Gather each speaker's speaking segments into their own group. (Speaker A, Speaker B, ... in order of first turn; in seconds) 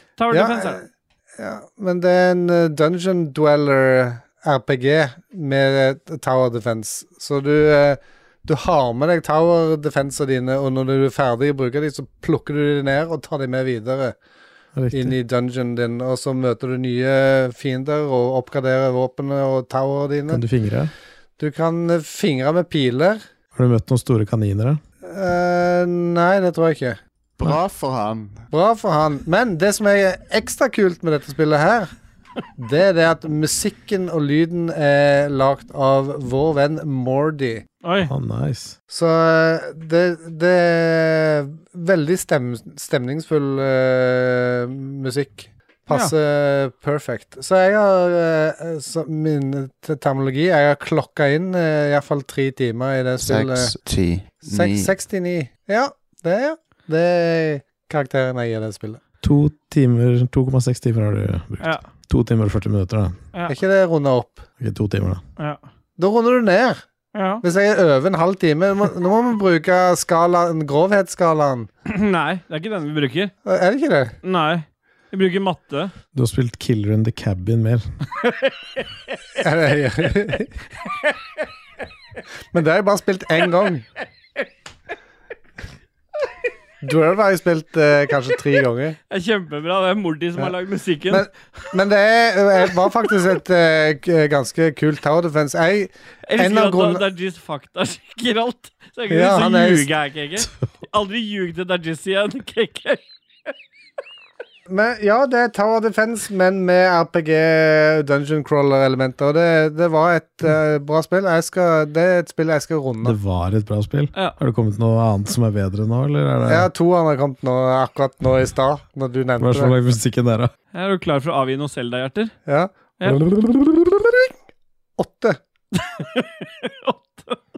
Speaker A: 0.2-0.8, 37.8-38.1, 67.1-67.4, 71.8-73.3, 74.2-75.9, 89.1-91.3, 96.2-103.0, 120.7-122.3, 125.7-127.4
Speaker B: 0.3-0.8, 1.4-14.2, 14.9-20.4, 21.4-23.2, 25.0-27.0, 28.5-31.9, 32.6-37.6, 38.9-53.7, 54.4-59.0, 63.5-64.4, 66.0-66.8, 67.4-71.7, 73.5-74.2, 79.4-80.5, 82.5-83.8, 86.8-89.0, 91.1-97.0, 99.1-99.9, 104.7-113.2, 116.5-119.7, 122.5-124.3, 125.0-125.4
Speaker C: 14.7-15.2, 20.3-20.9, 23.5-24.8, 38.0-38.7, 59.2-63.2, 64.6-65.2, 76.1-77.9, 113.0-116.7, 119.4-120.5
Speaker D: 27.4-28.4, 53.2-54.9